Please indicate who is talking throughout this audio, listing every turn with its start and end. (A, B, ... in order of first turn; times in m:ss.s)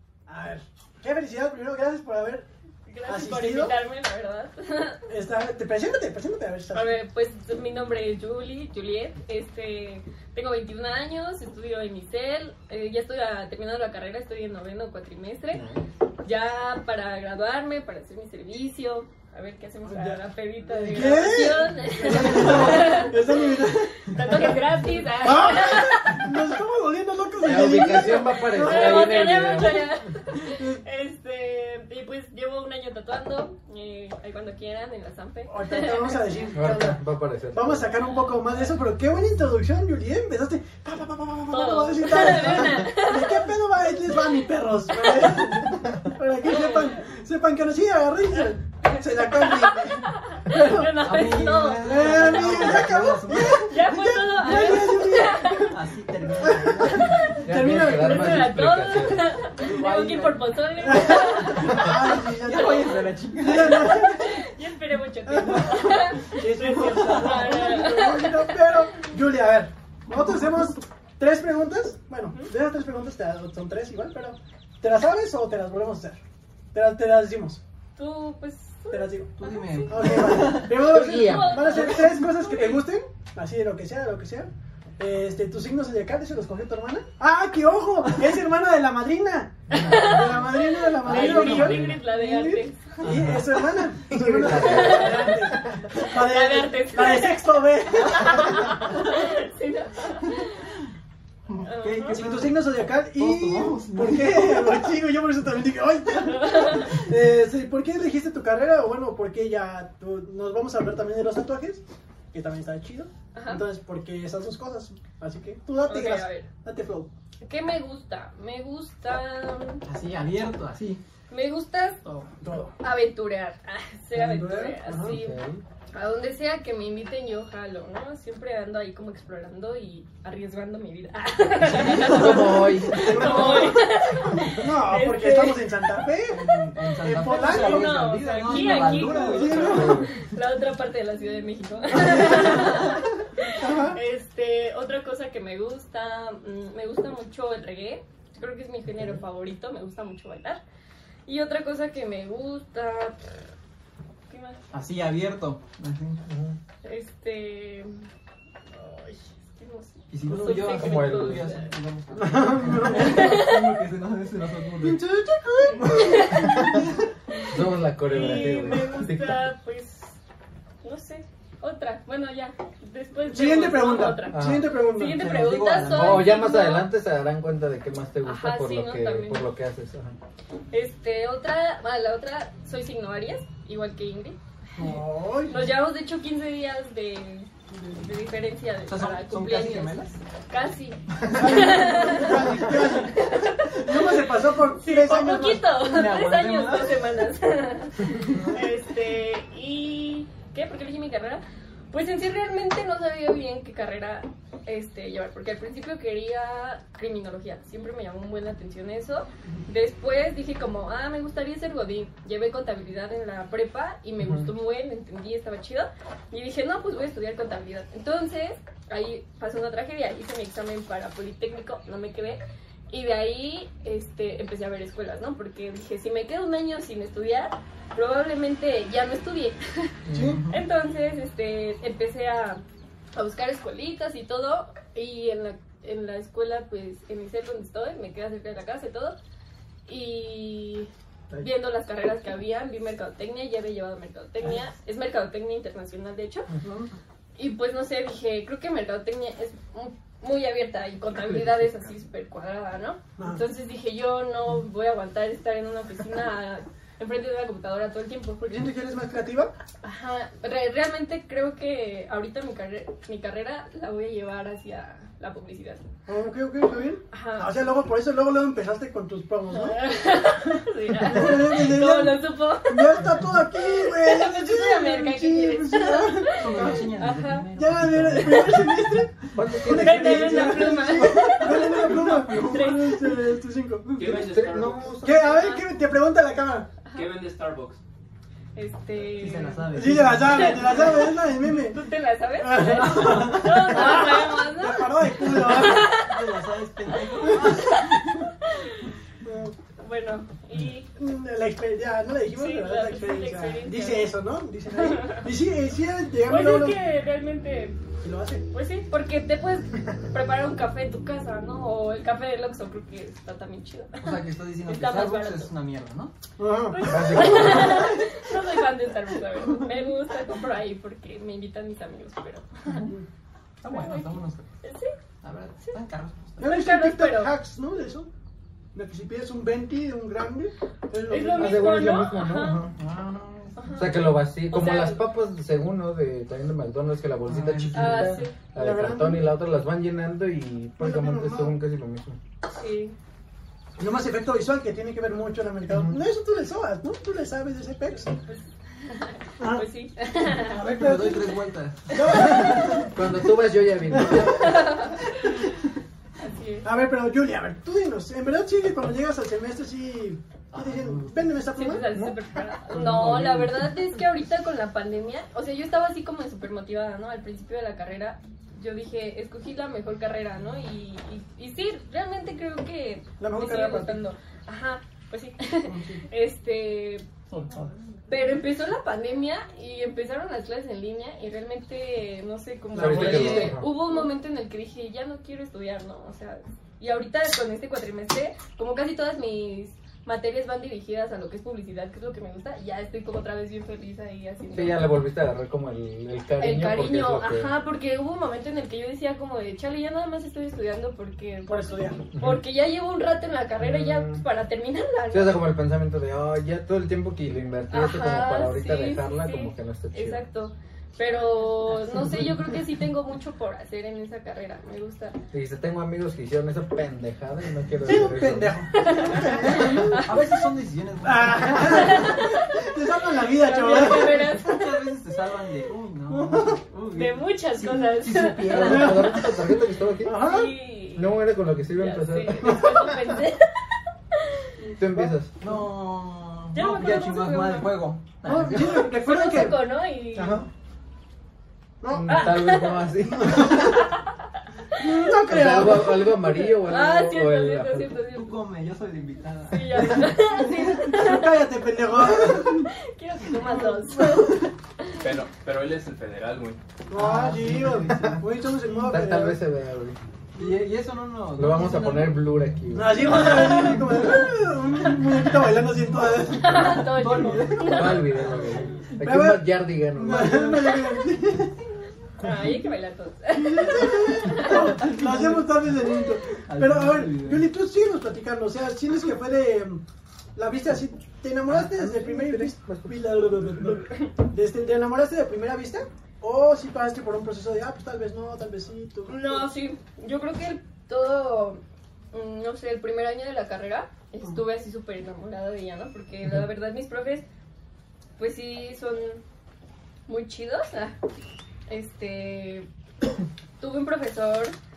0:00.3-0:02.5 A
0:02.9-0:05.0 B
0:03.1-0:03.8 A
0:05.1-0:07.0 A
0:06.7-0:15.7 B
0:16.2-0:26.3 B
0:19.8-0:29.5 A
0:22.0-0:23.1 C
0:27.4-0:30.0 D
0:27.6-0:36.2 B
0:30.4-0:30.8 A
0:35.5-0:37.0 A
0:36.5-0:37.9 D
0:37.5-0:50.9 A
0:37.9-0:38.6 B
0:41.5-0:43.5 B
0:44.9-0:45.6 B
0:46.4-0:47.0 B
0:48.4-0:52.8 B
0:50.8-0:54.0 C
0:51.8-0:55.8 A
0:53.5-0:55.7 B
0:55.6-0:57.4 C
0:56.4-0:58.6 A
0:56.9-1:03.1 B
0:57.4-0:59.2 D
0:59.6-1:04.2 C
1:00.8-1:04.4 A
1:03.6-1:08.9 B
1:05.3-1:16.2 A
1:07.0-1:07.5 C
1:16.7-1:17.6 A
1:18.0-1:22.9 B
1:18.9-1:19.4 A
1:19.4-1:20.7 C
1:19.9-1:39.1 A
1:20.7-1:21.9 D
1:29.7-1:33.0 B
1:29.8-1:30.4 C
1:31.0-1:32.0 C
1:33.0-1:33.6 C
1:34.1-1:35.7 D
1:34.4-1:37.4 B
1:38.0-1:38.5 C
1:38.0-1:40.7 B
1:41.5-1:44.9 C
1:41.6-1:42.2 B
1:42.1-1:57.1 A
1:46.3-1:47.0 B
1:53.3-1:53.6 B
1:55.9-1:56.5 B
1:57.4-1:59.8 B
1:59.8-2:01.0 C
2:01.3-2:02.0 B
2:02.4-2:02.8 A
2:02.6-2:05.4 B
2:04.1-2:05.3 A
2:05.1-2:05.6 D
2:05.9-2:15.8 B
2:11.8-2:13.8 D
2:11.8-2:20.0 A
2:16.3-2:20.0 C
2:17.2-2:30.6 B
2:19.7-2:20.1 D
2:22.0-2:22.9 A
2:23.5-2:24.0 A
2:28.9-2:29.2 D
2:31.3-2:33.3 B
2:34.3-2:34.6 B
2:34.7-2:36.2 C
2:36.3-2:36.6 D
2:36.8-2:38.1 B
2:38.7-2:41.7 B
2:40.1-2:45.0 C
2:40.6-2:41.5 D
2:42.2-2:43.4 A
2:42.9-2:43.6 B
2:44.8-2:46.9 A
2:45.8-2:46.6 B
2:46.4-2:46.7 D
2:47.5-2:49.4 D
2:48.1-2:50.2 B
2:48.1-2:48.8 A
2:50.8-2:56.9 B
2:53.3-2:55.2 A
2:54.3-2:54.7 D
2:55.0-2:56.4 C
2:55.9-3:00.2 D
2:58.2-2:59.5 B
3:00.7-3:04.4 B
3:04.8-3:05.0 C
3:04.8-3:05.7 A
3:05.5-3:07.5 B
3:07.7-3:08.1 A
3:08.0-3:50.0 B
3:08.9-3:10.2 C
3:11.3-3:13.0 C
3:11.3-3:15.7 A
3:15.8-3:17.3 C
3:34.2-3:34.5 D
3:50.1-3:50.4 D
3:50.1-3:50.4 A
3:50.2-3:50.6 C
3:50.5-3:52.6 B
3:53.2-3:59.2 B
3:59.9-4:06.5 B
4:06.6-4:06.9 A
4:07.4-4:18.4 B
4:18.4-4:19.5 A
4:19.8-4:25.8 B
4:26.1-4:29.8 A
4:27.1-4:27.5 B
4:29.5-4:37.5 B
4:31.0-4:44.4 A
4:36.4-4:39.0 C
4:38.1-4:38.7 B
4:39.4-4:40.6 D
4:39.7-4:43.2 B
4:40.8-4:42.6 C
4:44.0-4:45.0 E
4:44.0-4:45.6 D
4:45.0-4:46.7 A
4:45.1-4:45.7 B
4:46.9-4:47.8 E
4:48.6-4:56.2 B
4:49.2-4:50.9 C
4:49.7-4:51.8 A
4:52.4-4:56.1 A
4:55.4-4:58.3 C
4:57.0-4:57.8 A
4:57.2-4:57.9 B
4:58.4-4:58.9 B
4:59.2-4:59.5 A
4:59.8-5:00.9 B
5:01.0-5:06.8 A
5:02.3-5:04.1 B
5:04.7-5:05.3 B
5:06.3-5:07.8 B
5:08.0-5:08.4 A
5:08.5-5:15.5 B
5:14.0-5:16.1 C
5:16.4-5:17.8 A
5:16.7-5:22.9 B
5:16.8-5:17.9 D
5:23.6-5:24.5 C
5:23.7-5:25.0 B
5:25.2-5:26.4 C
5:26.4-5:28.1 A
5:26.4-5:27.3 B
5:28.7-5:31.9 A
5:31.1-5:32.7 B
5:31.4-5:32.8 D
5:32.7-5:33.9 C
5:33.6-5:35.0 B
5:33.8-5:42.2 D
5:37.3-5:38.3 C
5:37.7-5:38.4 B
5:38.6-5:39.3 A
5:40.8-5:41.6 A
5:42.6-5:43.0 B
5:43.8-5:48.2 A
5:45.7-5:46.0 D
5:48.0-5:50.6 B
5:49.4-5:49.6 A
5:50.4-5:51.3 A
5:50.4-5:52.9 C
5:51.9-5:53.1 A
5:51.9-5:52.6 B
5:52.9-5:54.6 D
5:53.9-5:54.4 A
5:54.1-5:55.7 B
5:56.2-5:56.7 B
5:56.6-6:01.9 A
6:00.6-6:01.4 C
6:01.5-6:17.0 B
6:01.9-6:03.7 D
6:13.2-6:14.0 A
6:15.7-6:16.0 C
6:17.3-6:17.7 C
6:18.1-6:35.0 B
6:22.7-6:23.7 C
6:22.8-6:23.7 D
6:34.5-6:37.5 D
6:36.4-6:45.4 B
6:41.5-6:42.1 A
6:42.2-6:42.4 D
6:43.6-6:44.2 D
6:45.1-6:50.2 D
6:47.7-6:55.2 B
6:55.3-6:58.6 D
6:57.8-7:00.1 A
6:57.9-7:02.2 C
6:58.7-7:00.1 B
6:59.6-6:59.9 D
7:01.0-7:04.4 A
7:01.7-7:04.7 B
7:03.8-7:09.3 C
7:06.1-7:06.6 A
7:06.9-7:08.6 B
7:08.5-7:10.3 D
7:08.5-7:09.4 A
7:10.0-7:10.5 A
7:10.1-7:11.2 B
7:11.0-7:13.2 D
7:11.8-7:14.5 B
7:14.6-7:15.2 A
7:14.8-7:15.4 D
7:15.4-7:18.9 C
7:16.5-7:17.7 B
7:18.3-7:20.4 A
7:18.6-7:20.5 B
7:20.2-7:20.5 D
7:21.8-7:22.5 A
7:21.9-7:23.8 D
7:22.1-7:24.1 B
7:23.1-7:23.8 A
7:24.8-7:26.3 A
7:25.2-7:27.9 D
7:26.4-7:28.4 B
7:28.1-7:30.0 C
7:29.5-7:35.1 B
7:29.9-7:32.7 A
7:33.4-7:34.3 A
7:35.0-7:36.6 E
7:36.9-7:39.4 A
7:36.9-7:38.2 C
7:37.9-7:38.2 D
7:38.8-7:40.0 D
7:40.4-7:42.2 C
7:41.4-7:43.2 D
7:42.7-7:46.9 A
7:43.2-7:43.7 B
7:43.5-7:44.3 C
7:46.3-7:48.2 B
7:46.4-7:48.6 C
7:47.6-7:50.8 D
7:49.0-7:51.6 A
7:50.6-7:51.1 B
7:52.2-7:54.8 B
7:53.3-7:59.8 A
7:54.4-7:55.8 C
7:56.4-7:57.5 C
8:00.4-8:09.4 A
8:01.5-8:03.2 D
8:09.1-8:11.6 B
8:12.1-8:17.2 B
8:18.2-8:19.2 B
8:20.1-8:21.0 B
8:21.7-8:22.7 B
8:23.6-8:24.6 B